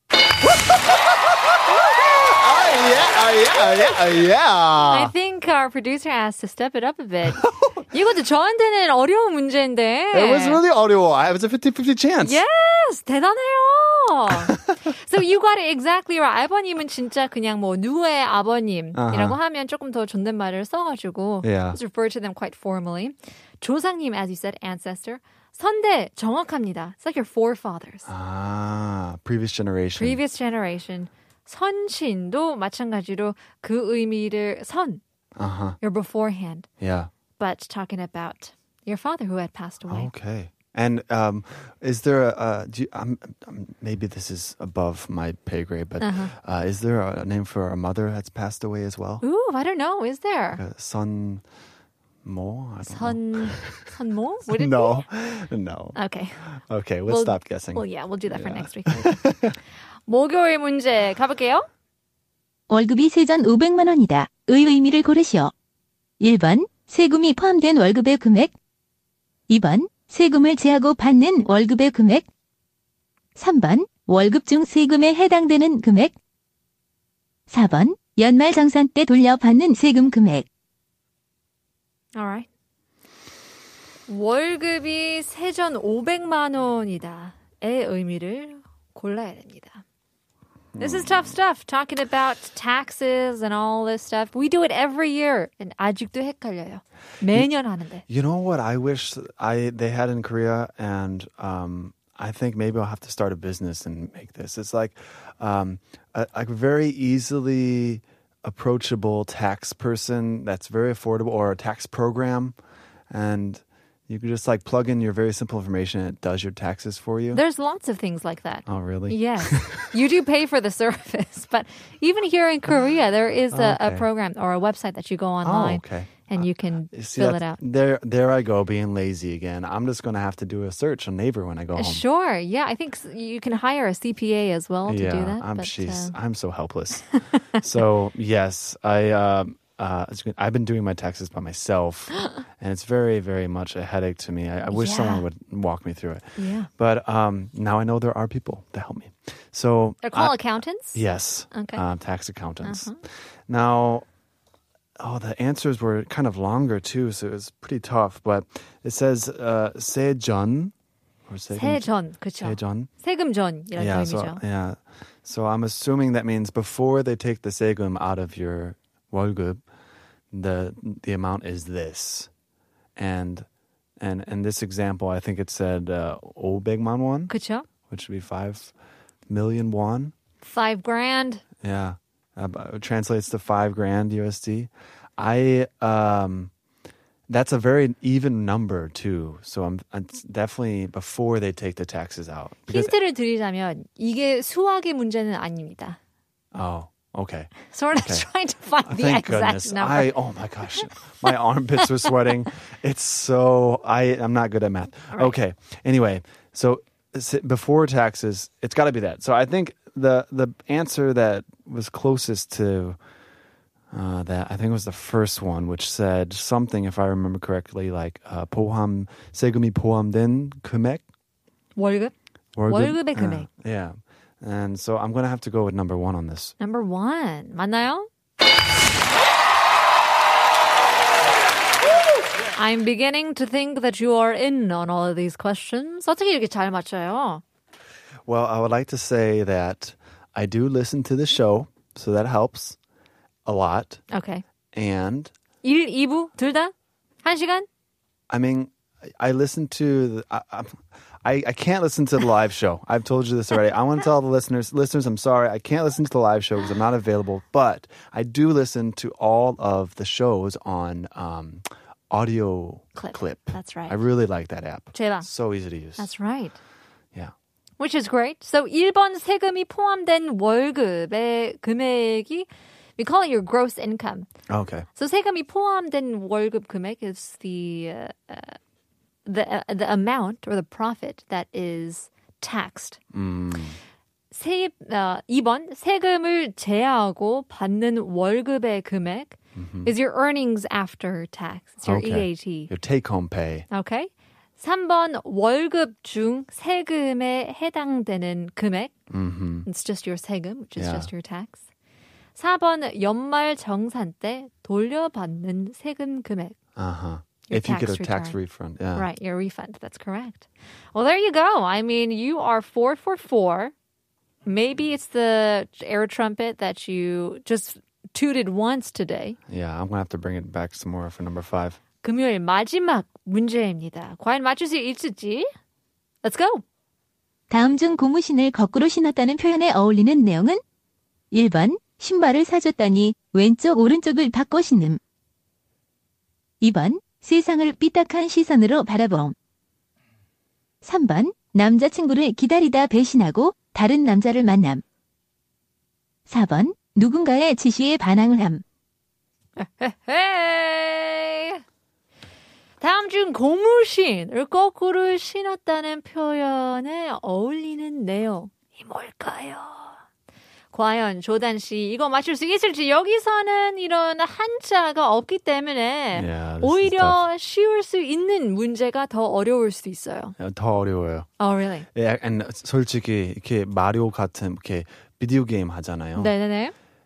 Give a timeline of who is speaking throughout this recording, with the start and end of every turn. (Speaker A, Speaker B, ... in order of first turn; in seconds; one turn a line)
Speaker A: 0.5-5.1
Speaker B: 4.8-10.6
Speaker A: 7.3-7.8
Speaker A: 10.1-12.4
Speaker B: 12.2-28.1
Speaker A: 14.3-14.6
Speaker A: 18.9-19.4
Speaker A: 21.4-21.8
Speaker A: 28.1-30.2
Speaker B: 30.0-35.0
Speaker A: 35.4-35.8
Speaker B: 35.8-36.7
Speaker A: 36.8-37.1
Speaker B: 37.4-40.1
Speaker A: 39.9-49.2
Speaker B: 46.0-46.3
Speaker B: 49.2-50.6
Speaker A: 50.5-51.4
Speaker A: 52.2-53.8
Speaker B: 52.8-55.0
Speaker A: 54.5-56.0
Speaker B: 55.9-56.4
Speaker A: 56.5-59.5
Speaker B: 57.1-59.2
Speaker B: 60.1-61.6
Speaker C: 62.7-65.5
Speaker C: 66.2-68.5
Speaker C: 69.5-72.2
Speaker C: 73.4-76.1
Speaker C: 77.5-80.5
Speaker B: 82.2-82.5
Speaker B: 84.1-89.8
Speaker A: 90.7-91.3
Speaker B: 90.8-98.0
Speaker A: 98.1-112.5
Speaker A: 113.1-117.4
Speaker B: 117.3-127.6
Speaker A: 118.7-119.9
Speaker A: 123.5-124.1
Speaker A: 125.4-132.0
Speaker B: 131.8-136.2
Speaker A: 134.8-150.4
Speaker B: 137.3-137.6
Speaker B: 144.7-145.2
Speaker B: 146.4-146.7
Speaker B: 150.0-151.0
Speaker A: 150.9-152.9
Speaker B: 151.5-151.8
Speaker B: 152.6-153.0
Speaker A: 153.5-154.1
Speaker A: 155.0-160.7
Speaker A: 161.3-161.9
Speaker B: 161.5-164.4
Speaker A: 162.4-162.9
Speaker A: 163.8-169.6
Speaker A: 170.3-172.3
Speaker A: 173.0-173.4
Speaker A: 174.0-177.3
Speaker B: 177.3-177.6
Speaker A: 177.8-178.7
Speaker A: 179.3-180.1
Speaker B: 180.4-181.4
Speaker A: 181.6-186.5
Speaker A: 187.3-192.9
Speaker B: 192.7-196.0
Speaker A: 196.5-198.3
Speaker B: 197.7-200.2
Speaker A: 198.8-213.0
Speaker B: 200.8-201.3
Speaker A: 213.9-221.0
Speaker B: 221.8-222.1
Speaker A: 222.5-226.5
Speaker B: 222.7-223.5
Speaker B: 226.6-228.1
Speaker B: 232.5-237.4
Speaker A: 238.3-242.8
Speaker A: 243.4-244.0
Speaker B: 244.1-244.4
Speaker A: 244.7-245.3
Speaker B: 245.6-247.7
Speaker A: 248.3-266.1
Speaker B: 262.9-264.0
Speaker B: 264.9-265.3
Speaker B: 266.0-266.6
Speaker B: 267.8-274.3
Speaker A: 274.5-274.9
Speaker B: 274.9-278.6
Speaker B: 279.2-283.0
Speaker A: 283.1-283.8
Speaker B: 284.3-292.7
Speaker A: 289.6-289.9
Speaker A: 291.8-293.7
Speaker B: 293.7-298.9
Speaker A: 299.1-299.6
Speaker B: 299.6-301.6
Speaker A: 300.8-301.1
Speaker B: 302.4-306.6
Speaker A: 306.8-309.1
Speaker B: 307.5-308.4
Speaker B: 308.9-313.7
Speaker B: 314.4-319.4
Speaker A: 319.5-321.8
Speaker B: 322.0-325.5
Speaker B: 326.2-326.6
Speaker C: 327.5-330.6
Speaker C: 331.3-335.0
Speaker C: 336.6-339.3
Speaker C: 340.8-344.8
Speaker C: 346.3-348.6
Speaker B: 349.6-351.6
Speaker B: 352.8-359.9
Speaker B: 360.7-370.3
Speaker A: 366.1-367.2
Speaker A: 370.4-371.3
Speaker B: 371.4-371.9
Speaker A: 371.9-376.3
Speaker B: 376.2-376.7